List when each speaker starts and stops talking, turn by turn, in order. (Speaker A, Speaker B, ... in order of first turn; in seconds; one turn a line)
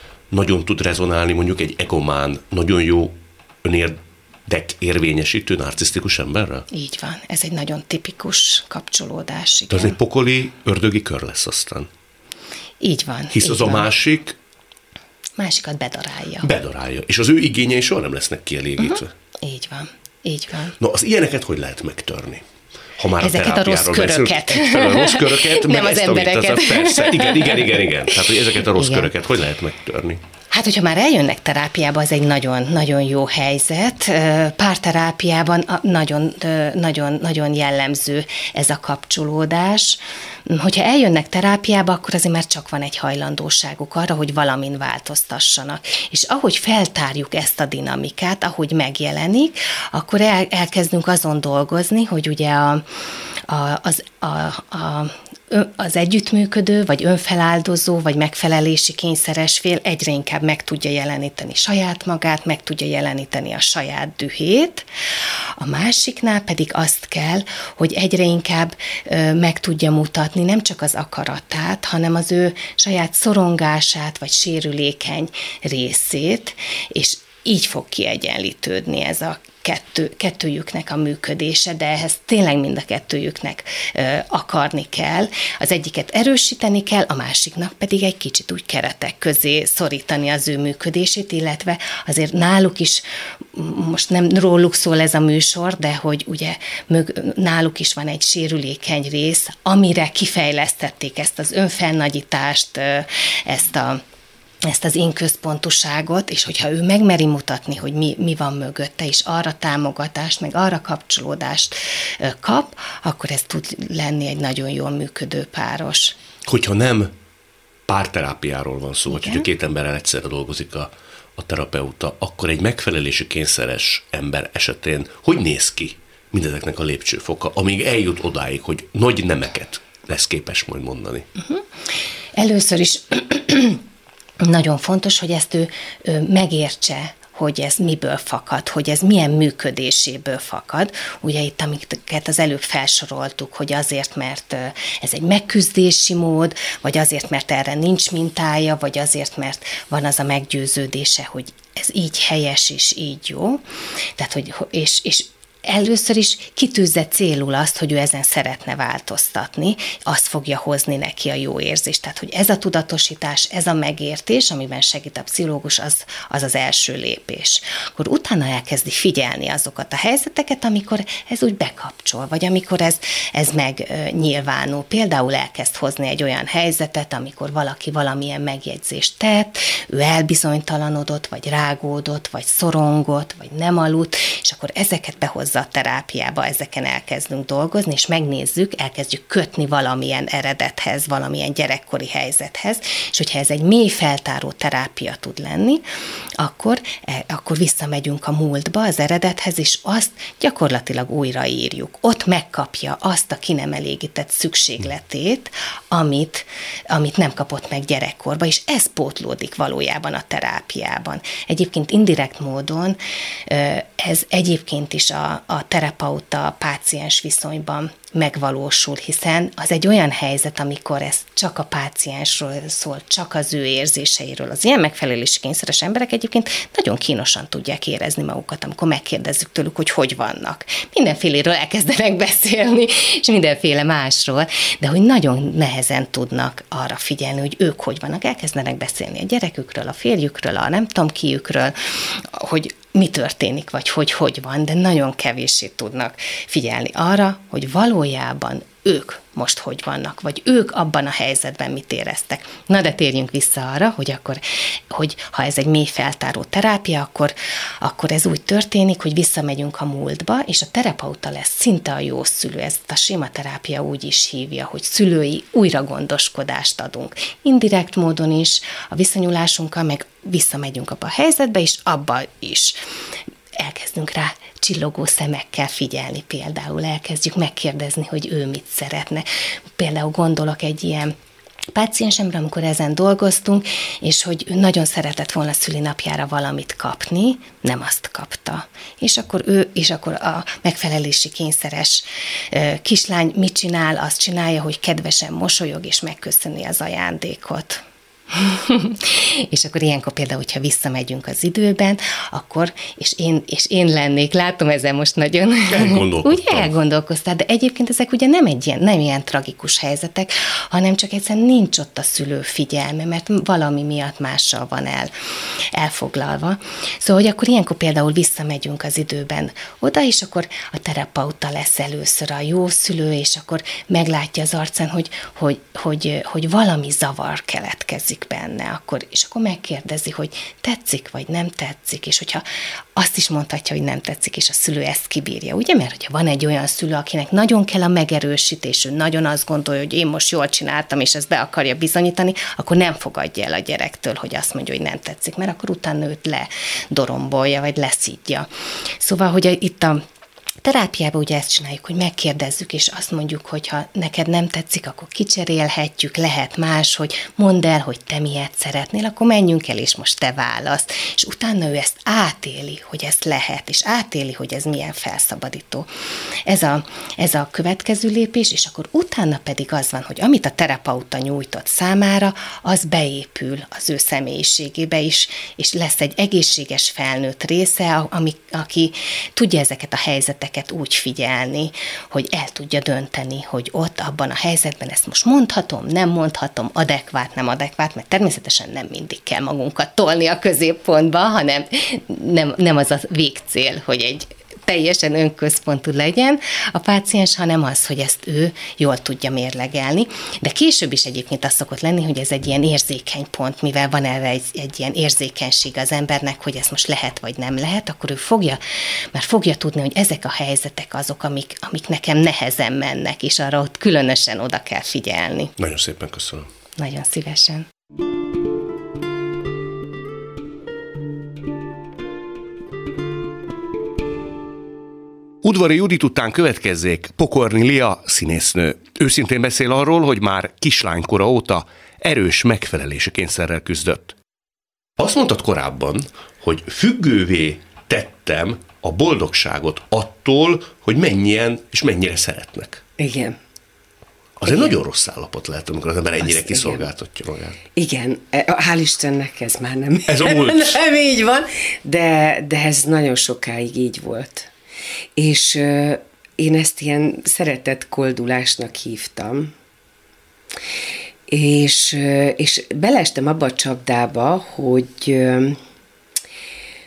Speaker A: 0.3-6.7
Speaker B: 6.7-10.0
Speaker A: 9.7-11.9
Speaker B: 12.8-13.9
Speaker A: 13.3-14.3
Speaker B: 15.4-16.5
Speaker A: 16.4-19.1
Speaker B: 18.8-20.7
Speaker A: 20.8-22.4
Speaker A: 23.0-30.2
Speaker B: 23.2-28.2
Speaker B: 28.8-29.1
Speaker B: 30.5-52.8
Speaker B: 53.5-64.8
Speaker B: 65.6-104.0
Speaker B: 104.6-116.2
Speaker A: 116.4-117.1
Speaker A: 117.9-131.3
Speaker B: 119.1-119.4
Speaker B: 132.3-133.8
Speaker B: 134.4-153.6
Speaker B: 154.2-195.8
Speaker B: 196.4-272.8
Speaker B: 273.6-279.2
Speaker B: 279.8-281.1
Speaker B: 281.7-315.1
Speaker A: 305.7-306.7
Speaker B: 315.7-332.4
Speaker B: 332.9-348.5
Speaker B: 349.0-350.0
Speaker B: 350.6-365.9
Speaker B: 366.5-408.6
Speaker B: 409.1-415.5
Speaker A: 415.6-416.5
Speaker B: 416.8-417.7
Speaker A: 425.4-434.1
Speaker A: 435.0-442.8
Speaker C: 443.0-443.4
Speaker A: 444.4-447.6
Speaker C: 444.4-444.7
Speaker C: 446.2-446.9
Speaker C: 447.7-454.5
Speaker A: 450.1-450.7
Speaker C: 455.1-459.5
Speaker C: 461.3-465.6